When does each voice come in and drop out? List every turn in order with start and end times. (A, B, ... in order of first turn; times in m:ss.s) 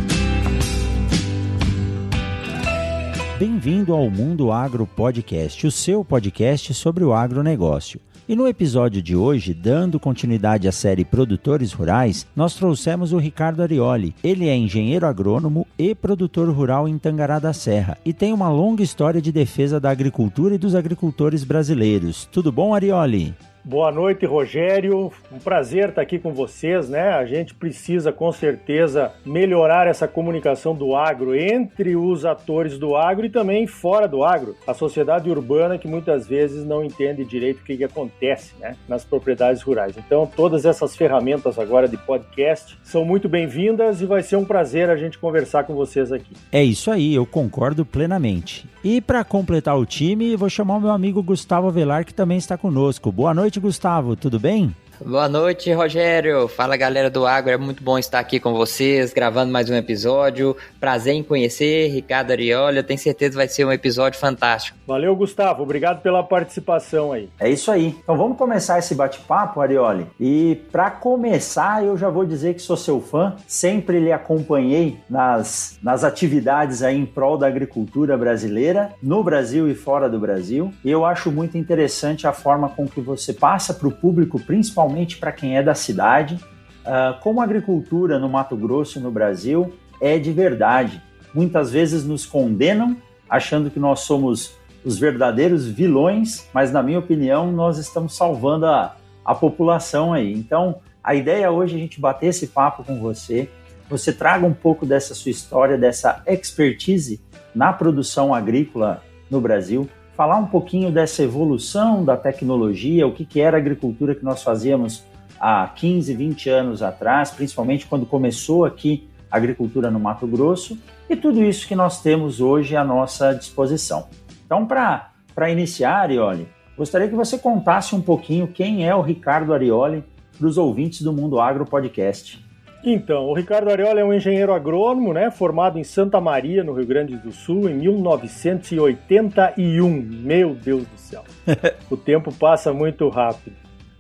0:03.4-0:23.4 A
0:23.6-0:46.4 B
0:46.5-0:54.8 A
0:55.0-1:04.8 C
1:04.9-1:07.3 B
1:07.4-2:12.4 A
2:12.8-2:21.3 B
2:21.9-2:23.6 B